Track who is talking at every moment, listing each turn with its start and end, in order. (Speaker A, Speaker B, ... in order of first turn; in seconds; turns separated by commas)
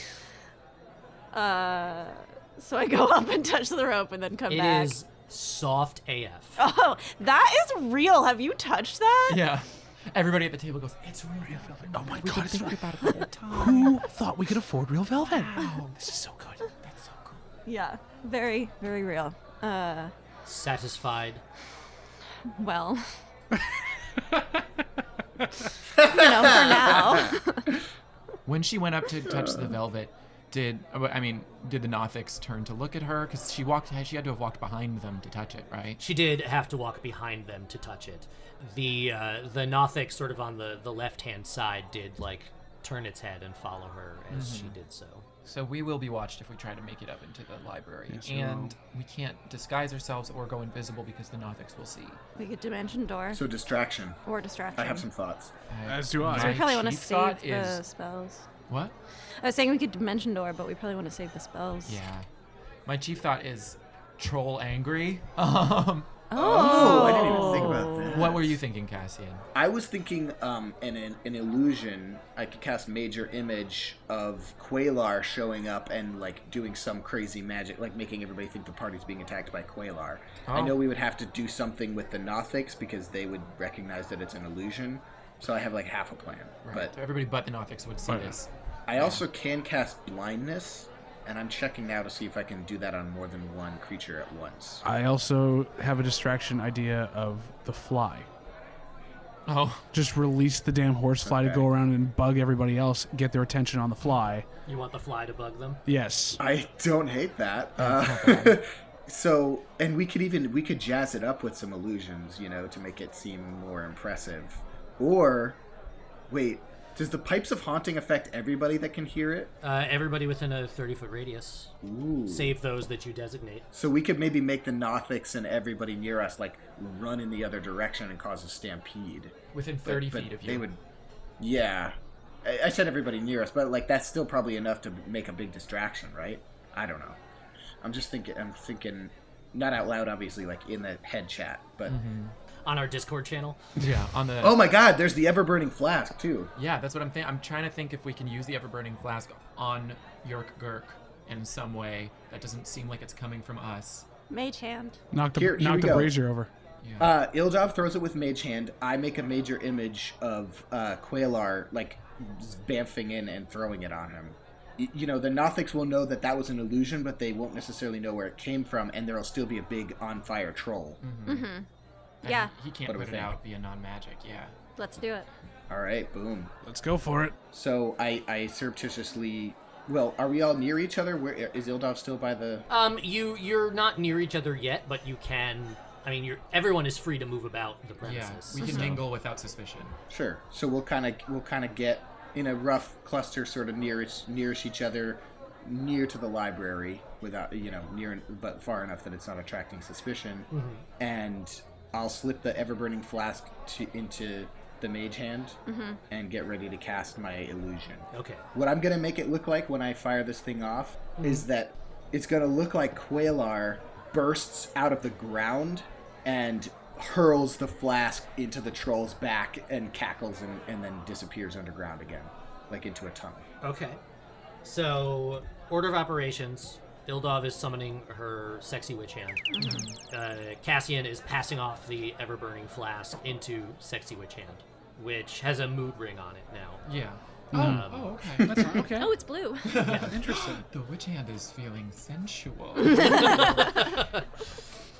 Speaker A: 1.3-5.0, Speaker B: 4.5-6.6, Speaker A: 6.6-9.5, Speaker C: 9.3-14.0, Speaker D: 11.5-16.6, Speaker C: 15.2-16.1, Speaker C: 16.8-17.4, Speaker A: 17.7-20.1, Speaker B: 20.4-21.4, Speaker A: 22.5-23.1, Speaker E: 26.0-26.9, Speaker A: 26.0-27.7, Speaker C: 28.5-36.0, Speaker B: 36.0-45.2, Speaker C: 44.3-44.8, Speaker C: 45.4-52.2, Speaker D: 48.1-48.7, Speaker A: 52.4-53.4, Speaker E: 53.3-54.2, Speaker A: 54.3-55.1, Speaker E: 54.7-55.5, Speaker C: 55.7-57.8, Speaker D: 55.9-56.7, Speaker A: 56.3-58.5, Speaker C: 58.7-59.0, Speaker A: 59.4-62.0, Speaker C: 61.9-62.3, Speaker C: 62.9-69.5, Speaker A: 66.3-68.2, Speaker E: 66.3-68.6, Speaker E: 69.5-87.0, Speaker C: 80.5-80.8, Speaker C: 86.6-89.2, Speaker D: 88.1-88.4, Speaker E: 88.9-94.8, Speaker D: 94.8-98.3, Speaker C: 99.5-99.8, Speaker D: 99.9-104.5, Speaker E: 101.2-101.7, Speaker B: 104.7-105.8, Speaker D: 105.9-106.4, Speaker E: 106.4-115.6, Speaker C: 107.8-108.6, Speaker E: 116.3-119.5, Speaker B: 119.6-121.7, Speaker E: 121.8-122.6, Speaker B: 122.3-123.7, Speaker E: 123.7-130.8, Speaker C: 129.5-130.7, Speaker E: 131.4-137.2, Speaker E: 137.8-142.0, Speaker C: 141.9-142.3, Speaker B: 142.7-143.6, Speaker C: 143.8-144.6, Speaker E: 144.4-146.5, Speaker C: 146.6-154.1, Speaker A: 154.3-155.0, Speaker D: 155.1-156.5, Speaker E: 155.4-156.2, Speaker C: 156.8-157.1, Speaker E: 157.0-171.0, Speaker C: 171.0-171.5, Speaker A: 171.2-171.7, Speaker C: 172.2-174.5, Speaker A: 172.2-172.6, Speaker E: 172.8-173.4, Speaker A: 174.8-175.3, Speaker E: 175.7-176.5, Speaker D: 176.6-177.4, Speaker E: 177.5-182.7, Speaker B: 182.7-189.0, Speaker C: 188.0-190.0, Speaker A: 188.6-189.0, Speaker E: 190.1-205.6, Speaker B: 200.5-200.8, Speaker A: 205.7-206.0, Speaker E: 206.1-223.5, Speaker B: 208.1-208.5, Speaker B: 223.6-224.0, Speaker B: 224.6-236.8, Speaker A: 229.5-229.9, Speaker C: 229.6-229.9, Speaker C: 236.8-238.8, Speaker D: 237.5-239.2, Speaker B: 237.5-238.2, Speaker A: 238.9-239.8, Speaker C: 239.7-243.7, Speaker D: 239.8-240.7, Speaker B: 239.8-240.2, Speaker B: 242.9-244.3